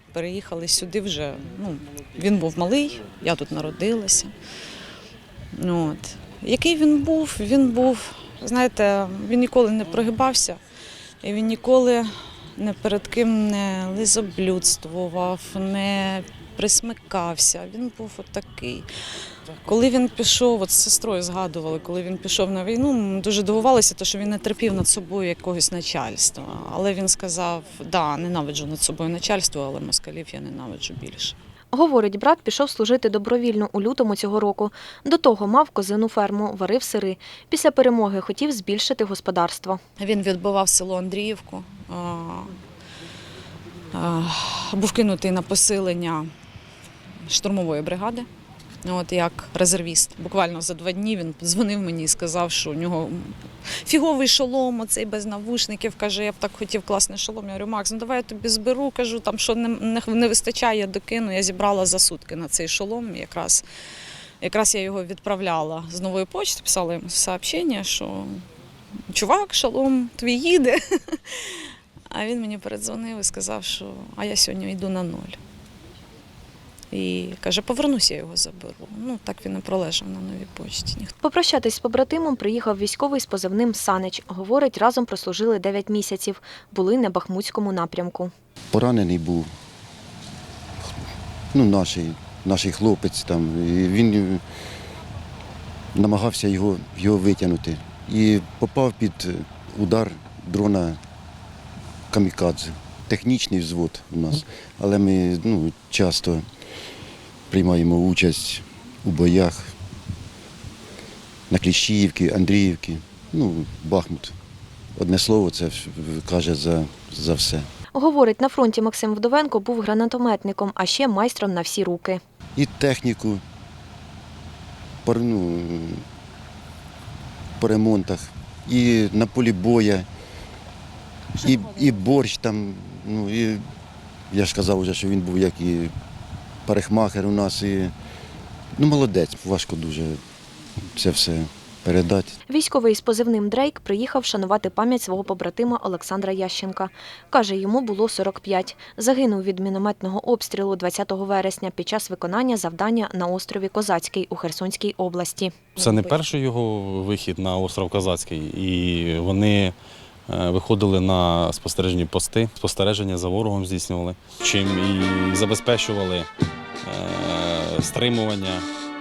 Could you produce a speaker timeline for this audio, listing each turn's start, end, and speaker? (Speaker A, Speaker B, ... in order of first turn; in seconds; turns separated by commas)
Speaker A: 0.1-4.3, Speaker A: 5.5-10.6, Speaker A: 11.2-18.9, Speaker A: 19.6-31.4, Speaker B: 31.7-39.8, Speaker A: 40.0-42.6, Speaker A: 43.9-46.3, Speaker A: 47.3-48.3, Speaker A: 48.8-63.6, Speaker A: 64.4-68.5, Speaker A: 69.1-75.4, Speaker A: 76.9-81.1, Speaker B: 81.2-88.3, Speaker C: 88.7-89.5, Speaker C: 91.5-94.4, Speaker C: 96.0-101.0, Speaker C: 102.1-106.5, Speaker C: 107.5-109.8, Speaker C: 111.5-114.4, Speaker C: 115.0-117.7, Speaker B: 117.9-122.2, Speaker C: 122.6-123.4, Speaker C: 125.0-126.0, Speaker C: 127.6-130.1, Speaker C: 131.3-133.7, Speaker C: 134.3-135.9, Speaker C: 136.7-137.9, Speaker C: 138.8-140.2, Speaker C: 140.9-142.4, Speaker B: 142.5-156.1, Speaker D: 155.8-159.8, Speaker D: 160.3-166.3, Speaker D: 166.8-168.7